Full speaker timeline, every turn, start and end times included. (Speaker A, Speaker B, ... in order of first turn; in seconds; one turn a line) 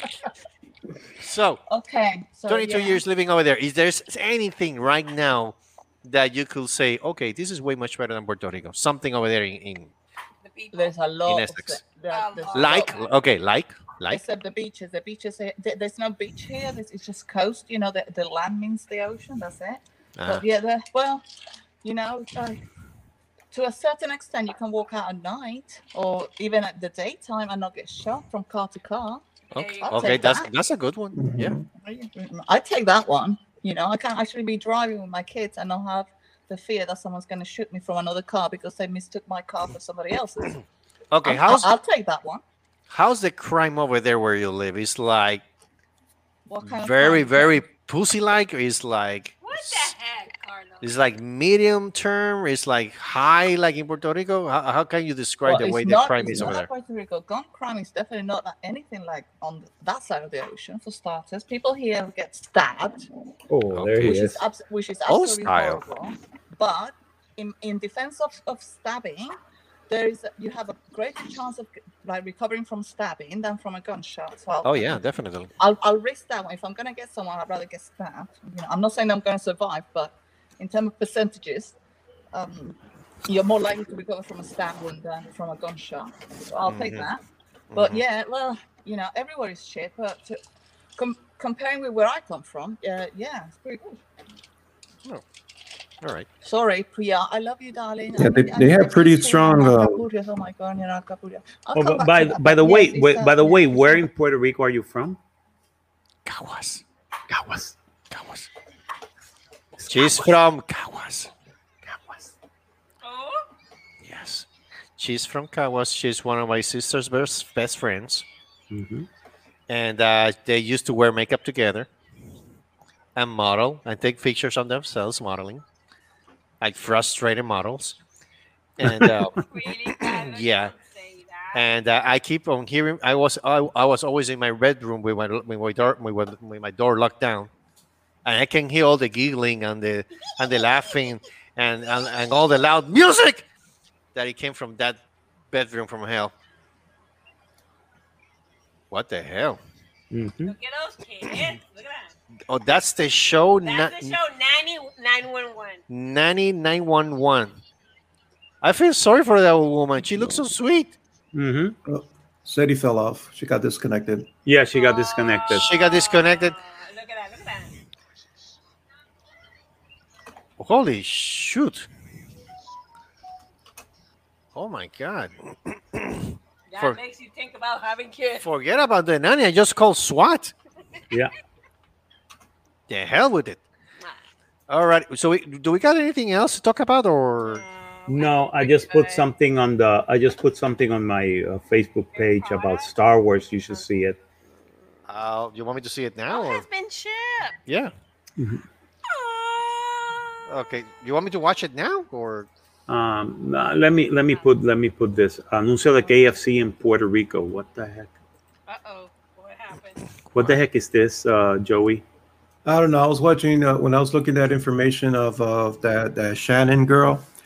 Speaker A: 1.2-1.6
Speaker B: 1.7-3.0
Speaker A: 2.5-9.9
Speaker C: 10.4-10.9
Speaker B: 10.7-12.9
Speaker A: 11.3-11.8
Speaker C: 12.1-13.2
Speaker A: 12.5-14.2
Speaker B: 14.1-21.2
Speaker A: 20.2-20.4
Speaker B: 21.8-22.6
Speaker B: 23.5-29.2
Speaker C: 29.5-30.4
Speaker A: 29.5-31.6
Speaker B: 29.8-30.5
Speaker D: 31.1-31.6
Speaker B: 31.7-40.6
Speaker A: 41.1-41.7
Speaker B: 41.2-42.4
Speaker A: 42.9-45.4
Speaker B: 46.5-47.6
Speaker A: 46.6-49.9
Speaker C: 49.4-51.0
Speaker A: 50.8-56.7
Speaker B: 55.5-63.1
Speaker E: 63.5-64.4
Speaker A: 63.7-64.2
Speaker B: 64.0-69.4
Speaker A: 65.1-65.8
Speaker B: 69.9-75.0
Speaker A: 74.6-75.5
Speaker B: 75.6-81.8
Speaker B: 82.3-87.2
Speaker A: 86.7-87.1
Speaker A: 87.7-88.0
Speaker B: 87.7-90.4
Speaker B: 91.0-94.0
Speaker A: 96.0-96.3
Speaker B: 96.4-104.1
Speaker D: 98.2-100.0
Speaker E: 101.7-105.2
Speaker A: 106.2-106.8
Speaker E: 107.3-107.8
Speaker A: 108.1-108.5
Speaker E: 109.8-110.3
Speaker A: 109.9-111.3
Speaker E: 111.9-112.3
Speaker C: 113.0-113.5
Speaker A: 114.0-118.3
Speaker E: 118.7-119.1
Speaker A: 119.7-121.9
Speaker A: 123.2-125.6
Speaker A: 126.6-128.0
Speaker A: 128.8-130.7
Speaker C: 129.5-131.7
Speaker A: 131.5-137.5
Speaker A: 138.2-143.4
Speaker A: 144.2-145.0
Speaker A: 145.5-146.3
Speaker A: 148.9-149.6
Speaker E: 150.1-150.6
Speaker C: 150.4-152.2
Speaker A: 152.5-154.2
Speaker C: 153.6-155.8
Speaker A: 155.9-157.6
Speaker A: 158.6-160.9
Speaker E: 161.3-161.8
Speaker D: 161.9-164.3
Speaker E: 164.4-165.7
Speaker C: 164.7-167.7
Speaker A: 165.5-166.6
Speaker A: 170.6-171.9
Speaker A: 174.5-177.0
Speaker C: 176.7-178.4
Speaker A: 178.4-180.5
Speaker A: 182.9-183.6
Speaker C: 184.0-184.3
Speaker A: 184.7-187.6
Speaker C: 187.4-189.3
Speaker E: 188.1-194.2
Speaker C: 192.1-192.9
Speaker A: 195.1-196.7
Speaker C: 196.3-197.6
Speaker A: 197.7-197.9
Speaker E: 198.4-198.6
Speaker C: 199.1-200.4
Speaker A: 200.5-202.5
Speaker E: 202.9-208.1
Speaker C: 208.7-210.0
Speaker E: 210.4-212.0
Speaker D: 212.7-217.3